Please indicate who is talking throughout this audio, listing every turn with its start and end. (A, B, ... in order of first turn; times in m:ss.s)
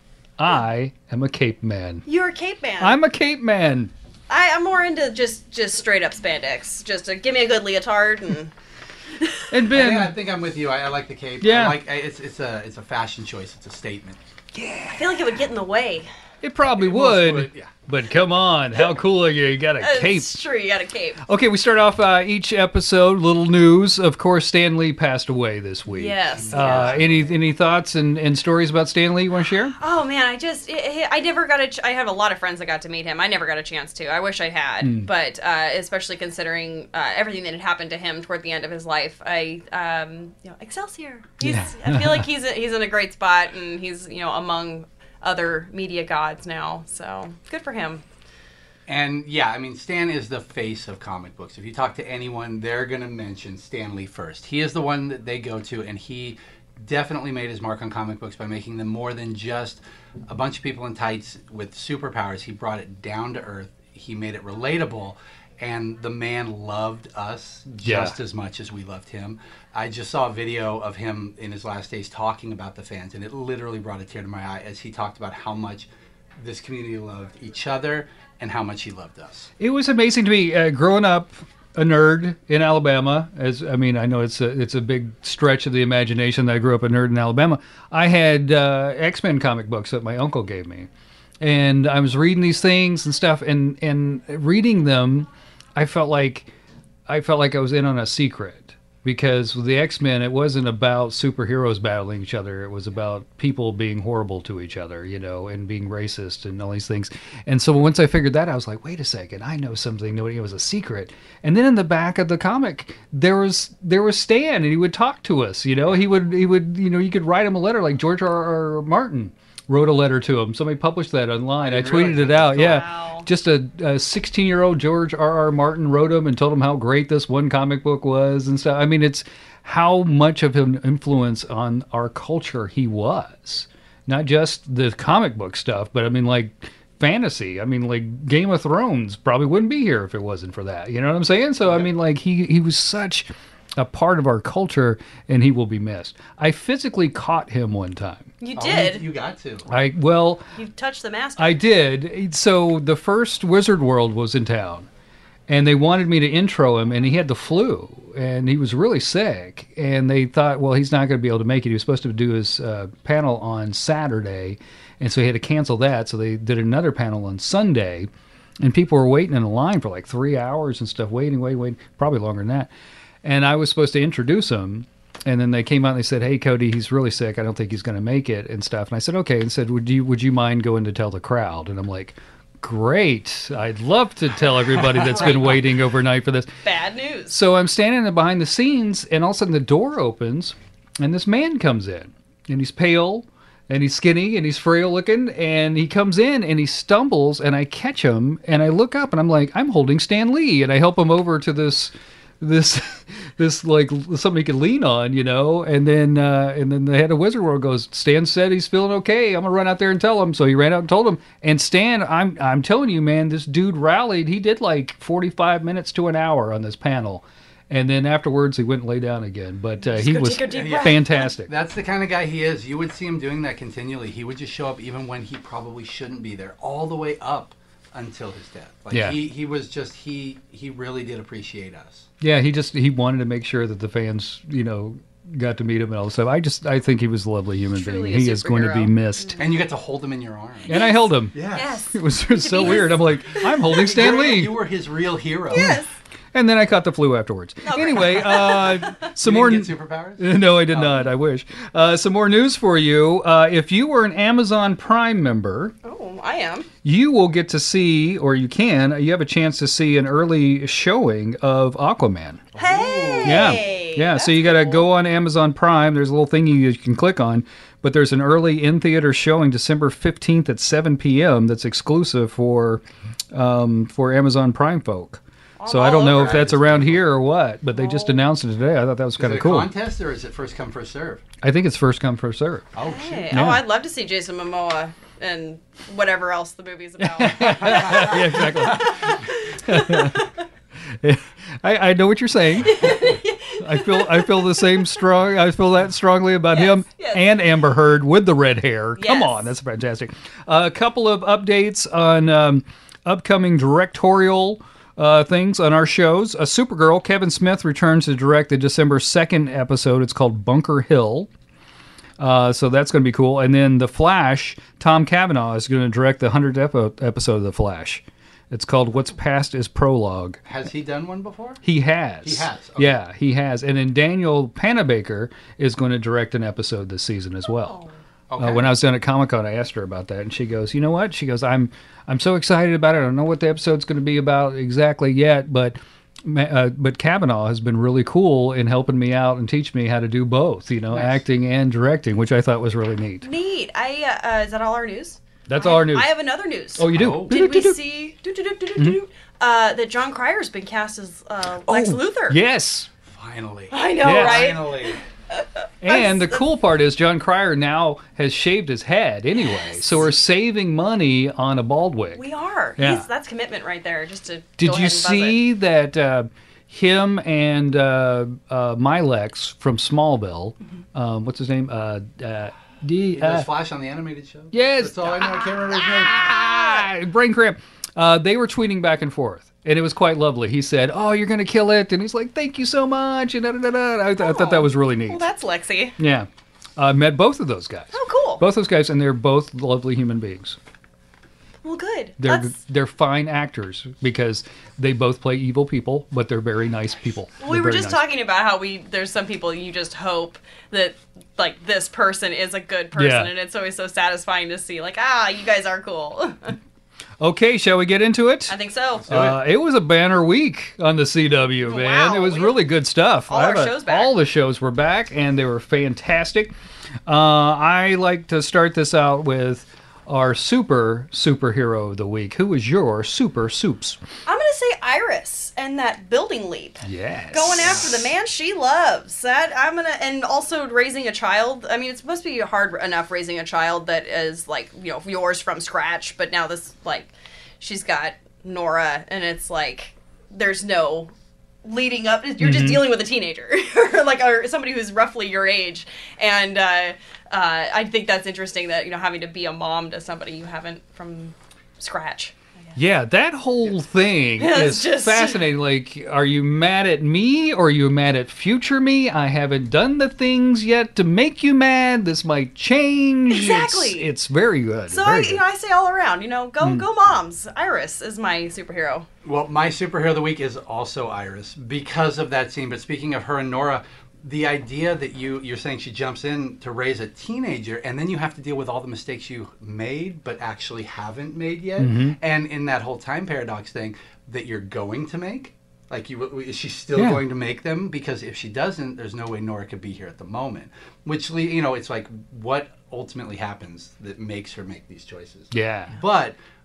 0:00.4-0:02.0 A
0:02.1-0:03.0 B
0:02.8-0:03.9 A
0:04.3-0:08.5 B
0:09.2-0:09.5 B
0:09.5-0:10.1 A
0:09.7-0:14.2 C
0:11.4-0:11.8 A
0:14.6-0:15.3 A
0:14.9-0:16.1 B
0:16.4-0:20.4 A
0:16.8-0:17.7 C
0:19.8-0:21.2 B
0:21.2-0:29.8 A
0:25.9-0:27.0 B
0:26.4-0:27.3 C
0:29.8-0:48.0 B
0:34.8-0:35.1 A
0:41.4-0:42.2 A
0:48.9-1:19.5 C
1:07.8-1:08.2 A
1:19.6-1:30.9 A
1:31.4-1:36.5 A
1:37.1-2:28.3 A
2:01.6-2:02.8 C
2:02.5-2:03.3 B
2:28.4-2:29.0 B
2:28.6-2:29.7 C
2:29.7-2:30.4 A
2:30.6-2:31.6 B
2:31.4-2:34.9 A
2:35.5-2:48.1 A
2:48.6-2:52.7 A
2:53.2-3:06.5 A
3:05.1-3:05.6 B
3:06.6-3:07.4 B
3:07.3-3:41.5 A
3:39.8-3:41.3 B
3:40.5-3:52.1 C
3:48.9-3:49.2 A
3:52.2-3:59.4 A
3:57.7-3:59.5 B
3:59.4-4:00.7 C
4:00.7-4:03.9 B
4:00.7-4:04.6 A
4:01.3-4:01.7 C
4:03.7-4:05.8 C
4:05.5-4:05.9 B
4:05.5-4:05.8 A
4:06.3-4:15.8 A
4:07.6-4:09.1 B
4:09.2-4:11.0 C
4:15.8-4:16.7 B
4:16.8-4:22.4 A
4:22.5-4:23.7 C
4:22.6-4:24.8 B
4:23.2-4:39.7 A
4:35.6-4:36.4 B
4:35.9-4:37.1 C
4:37.8-4:38.2 B
4:39.2-4:41.2 C
4:41.4-4:42.7 A
4:42.7-4:43.4 C
4:42.8-4:50.3 B
4:43.3-4:43.6 A
4:47.0-4:50.3 A
4:47.4-4:48.9 C
4:51.0-5:11.3 A
4:52.6-4:54.9 B
4:56.5-4:57.3 B
4:59.0-4:59.5 B
5:12.2-5:20.4 A
5:20.4-5:21.6 C
5:21.6-5:27.8 A
5:22.2-5:23.0 C
5:27.6-5:27.9 B
5:28.3-5:28.7 C
5:28.4-5:43.3 A
5:40.9-5:41.2 C
5:43.2-5:52.4 B
5:45.5-5:46.1 A
5:46.8-5:47.8 A
5:46.9-5:47.3 C
5:51.7-5:52.9 A
5:53.1-5:55.0 C
5:53.7-5:56.4 B
5:54.0-5:54.6 A
5:55.8-6:02.2 A
5:59.4-6:00.1 B
6:02.2-6:05.4 B
6:02.8-6:03.1 A
6:04.6-6:13.5 A
6:13.2-6:16.3 C
6:14.5-6:25.2 A
6:24.2-6:26.0 B
6:26.0-6:30.6 A
6:27.9-6:28.4 B
6:31.6-6:32.5 B
6:32.2-6:38.0 A
6:37.4-6:46.6 B
6:43.0-6:43.3 A
6:47.2-6:48.6 A
6:48.5-6:49.1 B
6:49.0-6:49.4 C
6:49.1-6:56.5 A
6:51.6-6:52.6 B
6:53.3-6:54.1 B
6:57.1-7:04.0 A
7:04.3-7:21.1 B
7:06.8-7:07.8 A
7:07.6-7:07.9 C
7:21.6-7:32.8 B
7:22.4-7:22.8 A
7:32.8-7:45.4 A
7:34.4-7:35.4 B
7:43.3-7:44.1 B
7:44.9-7:49.1 B
7:46.6-7:46.9 A
7:49.2-8:16.4 C
8:01.8-8:02.2 A
8:07.0-8:07.2 A
8:15.5-8:16.0 A